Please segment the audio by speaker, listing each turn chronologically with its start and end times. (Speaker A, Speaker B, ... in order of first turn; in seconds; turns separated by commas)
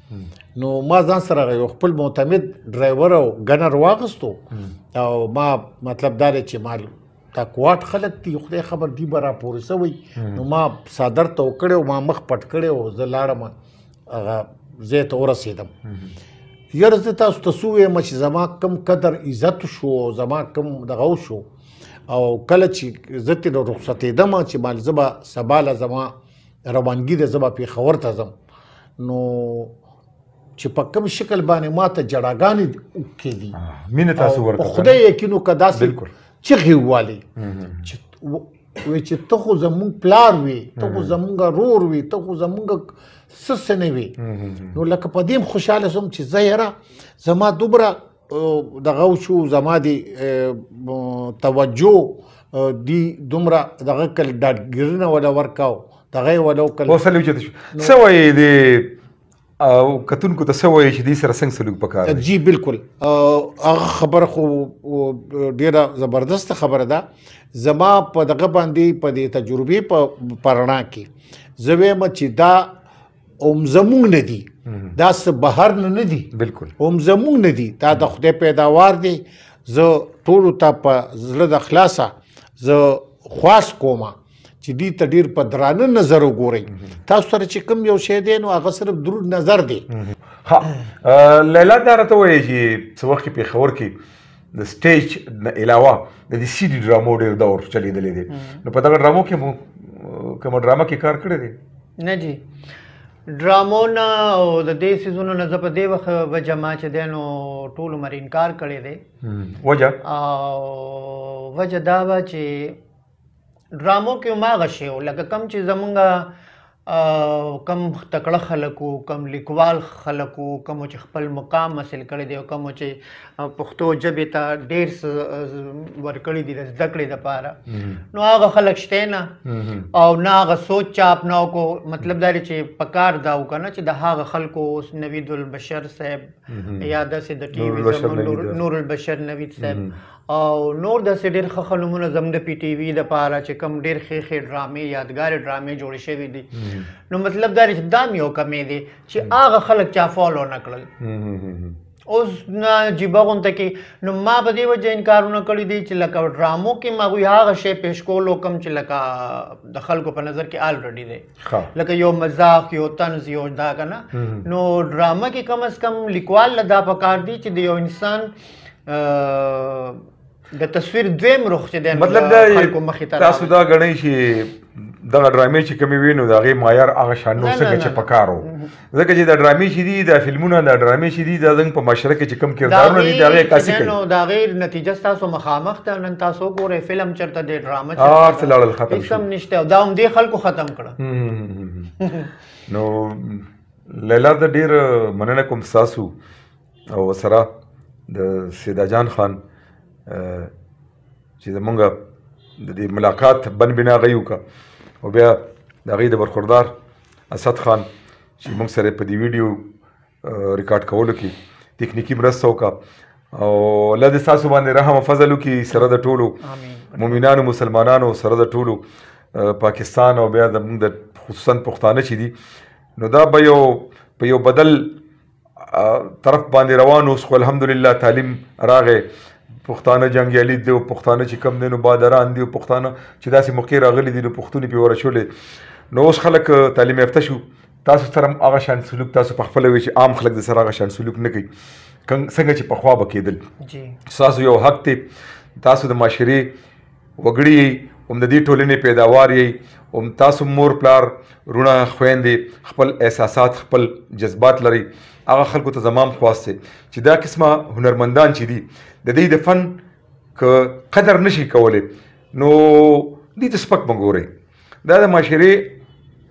Speaker A: 0.5-13.5, Speaker B: 10.2-10.4, Speaker A: 14.1-15.7, Speaker B: 15.8-16.1, Speaker A: 16.7-21.4, Speaker A: 22.1-26.1, Speaker A: 26.6-28.3, Speaker A: 29.0-29.7, Speaker A: 30.6-33.6, Speaker B: 33.5-35.0, Speaker A: 34.2-37.2, Speaker B: 35.7-36.1, Speaker B: 37.4-37.9, Speaker A: 37.8-44.1, Speaker B: 40.8-41.1, Speaker B: 44.2-44.8, Speaker A: 44.7-57.0, Speaker B: 56.9-58.9, Speaker B: 59.6-62.2, Speaker A: 62.0-72.7, Speaker A: 73.4-89.8, Speaker B: 76.3-76.7, Speaker B: 90.0-93.9, Speaker B: 94.5-101.5, Speaker C: 98.3-98.6, Speaker C: 102.0-102.4, Speaker C: 103.3-109.0, Speaker B: 109.2-110.0, Speaker C: 110.0-112.8, Speaker C: 113.7-116.3, Speaker C: 116.9-127.6, Speaker B: 127.7-128.0, Speaker C: 128.1-129.3, Speaker B: 129.4-129.9, Speaker C: 129.9-146.5, Speaker B: 136.5-136.9, Speaker B: 137.5-138.6, Speaker B: 139.6-139.9, Speaker B: 146.5-146.9, Speaker C: 147.1-150.9, Speaker B: 151.0-151.8, Speaker C: 152.1-168.3, Speaker B: 161.4-161.7, Speaker B: 164.1-164.4, Speaker C: 168.9-173.6, Speaker B: 171.9-183.9, Speaker C: 177.4-178.7, Speaker C: 182.6-191.0, Speaker B: 188.0-189.2, Speaker B: 191.0-191.9, Speaker C: 192.0-192.3, Speaker B: 192.7-196.1, Speaker B: 196.9-197.4, Speaker B: 198.1-199.4, Speaker B: 200.1-200.5, Speaker B: 201.4-201.9, Speaker B: 202.6-204.4, Speaker B: 205.0-206.7, Speaker B: 207.3-207.9, Speaker B: 208.4-209.6, Speaker B: 210.2-212.7, Speaker B: 213.3-216.4, Speaker C: 216.4-217.2, Speaker B: 216.9-218.8, Speaker B: 219.3-222.3, Speaker B: 223.0-224.9, Speaker B: 225.6-229.1, Speaker B: 229.6-235.3, Speaker B: 235.9-241.4, Speaker B: 242.1-243.4, Speaker C: 243.6-243.9, Speaker B: 244.1-245.0, Speaker B: 245.6-246.5, Speaker B: 247.2-259.7, Speaker B: 260.4-264.3, Speaker B: 264.8-265.7